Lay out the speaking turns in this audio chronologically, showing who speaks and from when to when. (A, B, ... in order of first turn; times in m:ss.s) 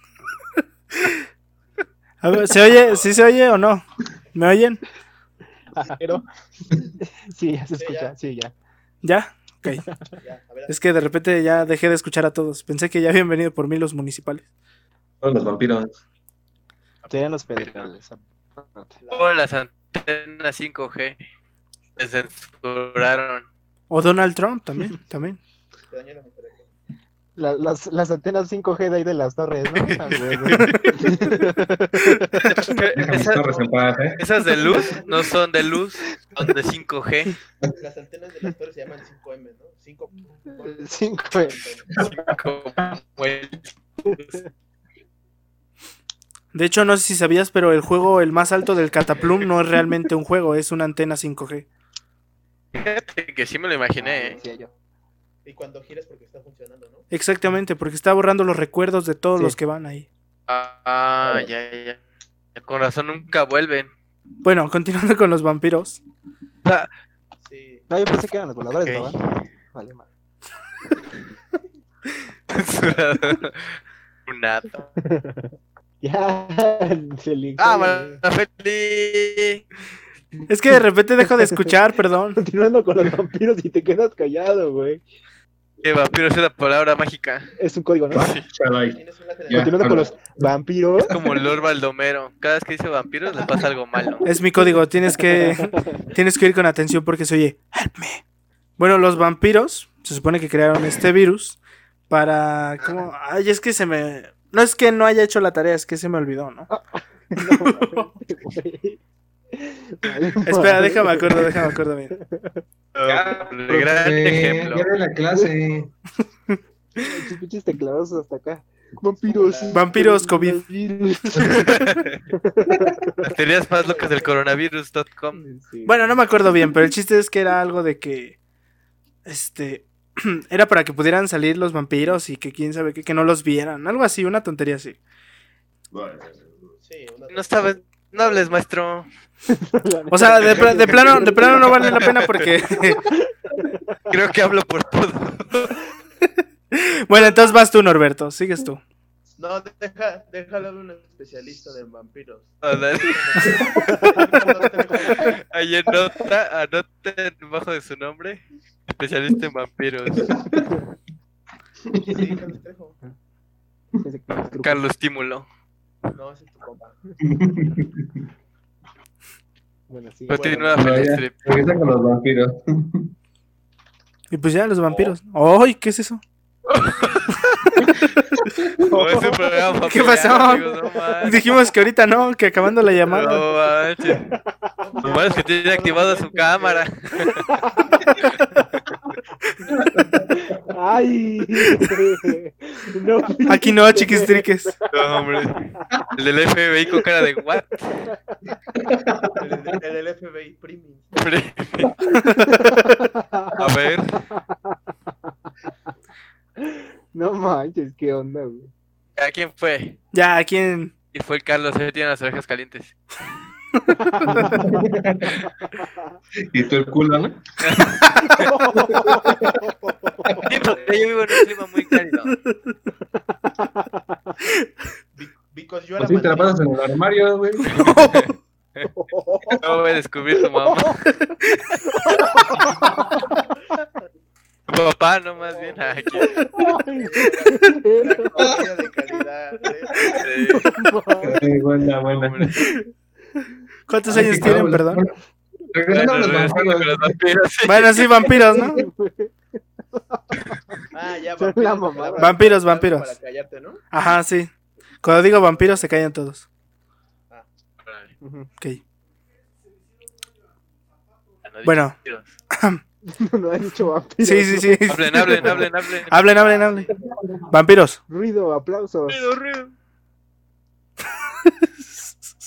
0:02.2-0:04.8 A
0:05.7-0:06.2 B
0:07.0-0:08.5 B
0:07.8-0:08.1 C
0:09.0-0:09.9 A
0:10.2-0:10.9 C
0:10.7-0:14.4 A
0:15.2-0:16.0 D
0:17.0-0:17.9 E
0:17.1-0:18.9 B
0:19.0-0:19.3 C
0:19.1-0:21.2 E
0:22.0-0:23.4 E
0:23.9-0:25.4 A
0:25.9-0:26.7 C
0:27.4-0:32.7 B
0:29.7-0:31.3 E
0:32.0-0:32.4 A
0:32.4-0:33.4 E
0:32.9-0:34.2 D
0:33.1-0:35.4 C
0:34.2-0:37.4 E
0:37.7-0:42.0 C
0:40.6-0:41.6 B
0:42.0-0:44.4 E
0:44.0-0:44.4 B
0:46.5-0:51.6 A
0:52.7-0:54.4 E
0:54.0-0:54.7 C
0:54.0-0:54.7 B
0:55.4-0:57.1 C
0:57.1-1:00.1 A
1:00.5-1:02.0 E
1:02.5-1:03.9 E
1:04.4-1:06.0 A
1:06.6-1:06.9 E
1:07.4-1:07.9 C
1:07.9-1:10.0 B
1:08.8-1:09.3 E
1:12.5-1:14.9 E
1:15.0-1:18.2 B
1:17.6-1:19.6 E
1:20.5-1:22.4 A
1:21.2-1:21.7 B
1:22.3-1:25.0 B
1:25.8-1:27.5 E
1:27.6-1:28.3 B
1:28.1-1:30.2 D
1:28.1-1:28.4 E
1:28.9-1:30.2 C
1:29.5-1:31.1 B
1:31.1-1:34.3 E
1:34.2-1:38.2 A
1:34.6-1:36.0 B
1:38.8-1:41.6 A
1:42.1-1:46.7 A
1:46.7-1:49.0 B
1:47.4-1:48.1 A
1:49.5-1:52.6 B
1:50.4-1:52.1 A
1:52.9-1:54.9 E
1:53.0-1:55.9 D
1:57.0-2:03.3 B
1:59.2-2:00.0 C
1:59.7-2:00.6 A
2:01.4-2:02.2 E
2:02.7-2:03.0 D
2:03.2-2:05.4 E
2:03.8-2:04.4 C
2:05.3-2:06.6 B
2:05.8-2:08.4 A
2:09.2-2:15.0 A
2:15.9-2:16.3 D
2:16.8-2:18.5 C
2:17.3-2:19.1 E
2:19.5-2:22.1 B
2:20.1-2:23.0 A
2:20.7-2:21.0 C
2:21.7-2:22.5 E
2:22.9-2:24.0 B
2:24.1-2:25.8 E
2:26.7-2:28.8 A
2:29.4-2:35.4 C
2:32.6-2:33.6 E
2:33.5-2:33.7 D
2:33.6-2:35.3 B
2:35.1-2:40.4 E
2:40.2-2:40.7 D
2:41.9-2:42.3 D
2:42.0-2:43.0 C
2:44.0-2:44.8 B
2:44.4-2:45.5 E
2:46.1-2:47.1 C
2:47.2-2:48.2 D
2:49.9-2:50.7 B
2:50.3-2:51.5 E
2:50.3-2:50.9 C
2:50.7-2:53.1 D
2:54.3-2:56.2 A
2:56.7-2:57.3 E
2:57.6-2:57.9 A
2:58.4-2:58.9 D
2:58.9-3:01.5 E
2:59.8-3:00.7 A
3:01.2-3:03.4 A
3:02.8-3:04.7 B
3:03.1-3:04.3 E
3:04.8-3:06.8 C
3:05.0-3:07.4 E
3:07.5-3:07.8 B
3:07.8-3:08.6 C
3:09.7-3:10.4 D
3:10.3-3:15.1 B
3:11.6-3:11.9 A
3:13.4-3:14.7 A
3:14.9-3:18.1 E
3:17.9-3:18.4 B
3:18.8-3:19.7 D
3:19.4-3:21.3 C
3:21.2-3:22.0 E
3:22.1-3:22.7 A
3:22.4-3:23.7 B
3:23.6-3:24.3 E
3:24.3-3:25.3 B
3:26.6-3:28.7 B
3:29.2-3:30.0 E
3:30.1-3:30.9 A
3:31.1-3:33.0 E
3:33.9-3:34.6 A
3:33.9-3:34.8 B
3:34.2-3:35.4 D
3:35.2-3:35.6 E
3:35.8-3:36.1 B
3:36.4-3:37.4 D
3:37.6-3:38.5 E
3:38.3-3:40.5 B
3:39.1-3:39.6 D
3:40.4-3:41.1 C
3:40.4-3:42.3 E
3:42.2-3:42.5 A
3:43.3-3:44.3 B
3:45.1-3:46.7 C
3:46.0-3:47.7 D
3:47.6-3:48.3 A
3:47.7-3:48.9 E
3:48.9-3:49.8 B
3:49.6-3:51.1 E
3:50.6-3:51.0 B
3:51.4-3:52.2 A
3:52.1-3:53.3 B
3:54.7-3:56.4 E
3:55.4-4:00.6 C
3:56.6-3:58.4 B
4:00.2-4:00.8 E
4:00.5-4:01.4 B
4:01.2-4:02.5 D
4:02.0-4:02.7 E
4:03.9-4:05.0 A
4:04.1-4:05.1 D
4:05.7-4:07.2 D
4:05.9-4:08.4 E
4:07.6-4:08.8 A
4:08.3-4:10.8 B
4:10.9-4:13.8 C
4:11.4-4:12.4 B
4:12.2-4:13.1 A
4:13.9-4:14.5 A
4:15.0-4:16.4 A
4:17.8-4:18.1 E
4:18.2-4:18.5 B
4:21.4-4:22.3 E
4:21.6-4:21.9 A
4:22.5-4:22.8 A
4:23.0-4:25.6 B
4:24.2-4:26.9 A
4:24.9-4:26.9 E
4:26.7-4:27.1 C
4:27.1-4:27.5 D
4:27.5-4:28.0 A
4:28.1-4:29.3 B
4:29.1-4:29.7 E
4:31.4-4:32.1 A